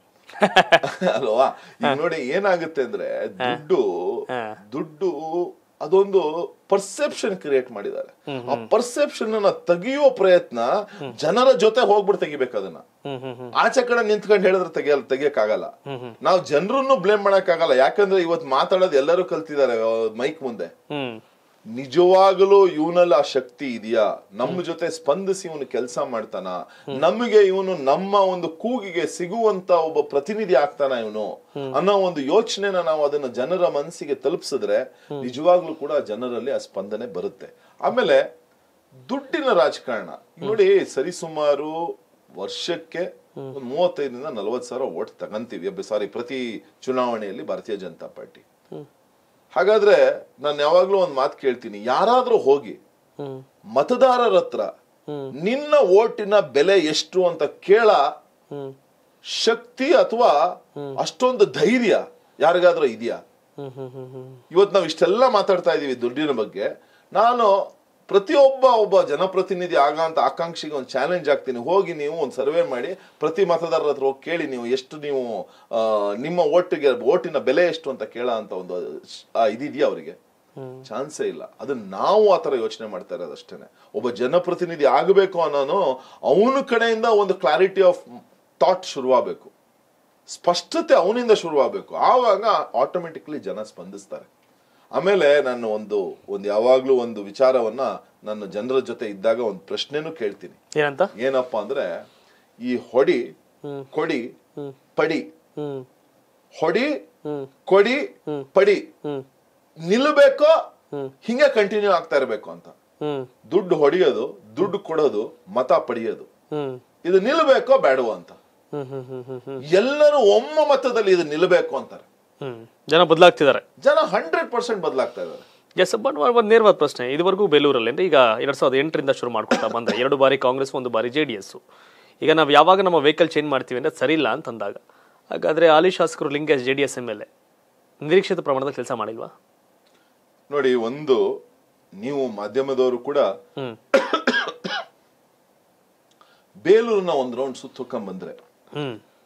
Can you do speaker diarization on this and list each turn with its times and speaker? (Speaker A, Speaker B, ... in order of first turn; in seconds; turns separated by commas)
Speaker A: 0.4-0.9, Speaker B: 0.8-12.8, Speaker A: 4.3-4.6, Speaker A: 8.3-8.7, Speaker A: 13.1-13.6, Speaker B: 13.6-15.7, Speaker A: 15.9-16.2, Speaker B: 16.2-20.7, Speaker A: 20.9-21.2, Speaker B: 21.7-38.3, Speaker B: 39.1-41.8, Speaker B: 42.4-48.4, Speaker B: 49.5-52.8, Speaker B: 53.7-54.7, Speaker B: 55.4-58.0, Speaker B: 59.3-60.4, Speaker B: 61.0-63.2, Speaker A: 63.6-64.4, Speaker B: 64.5-67.5, Speaker B: 68.1-80.2, Speaker A: 80.6-80.9, Speaker B: 80.9-88.0, Speaker B: 88.6-89.5, Speaker B: 90.3-94.3, Speaker B: 95.0-100.6, Speaker A: 100.8-101.1, Speaker B: 101.2-102.0, Speaker B: 102.6-103.2, Speaker B: 103.9-104.3, Speaker B: 105.0-105.3, Speaker A: 105.6-105.9, Speaker B: 106.6-106.9, Speaker A: 107.2-107.5, Speaker B: 107.7-108.9, Speaker B: 109.9-110.5, Speaker B: 111.2-112.8, Speaker A: 113.0-113.3, Speaker B: 113.5-116.3, Speaker A: 116.5-116.8, Speaker B: 117.0-118.4, Speaker A: 118.7-119.6, Speaker B: 119.7-122.1, Speaker A: 122.4-123.6, Speaker B: 123.8-125.5, Speaker A: 125.8-131.6, Speaker A: 132.2-134.8, Speaker A: 135.3-137.3, Speaker A: 138.0-139.3, Speaker B: 140.5-141.2, Speaker B: 142.0-143.3, Speaker B: 143.9-144.8, Speaker B: 146.7-148.4, Speaker A: 148.7-149.0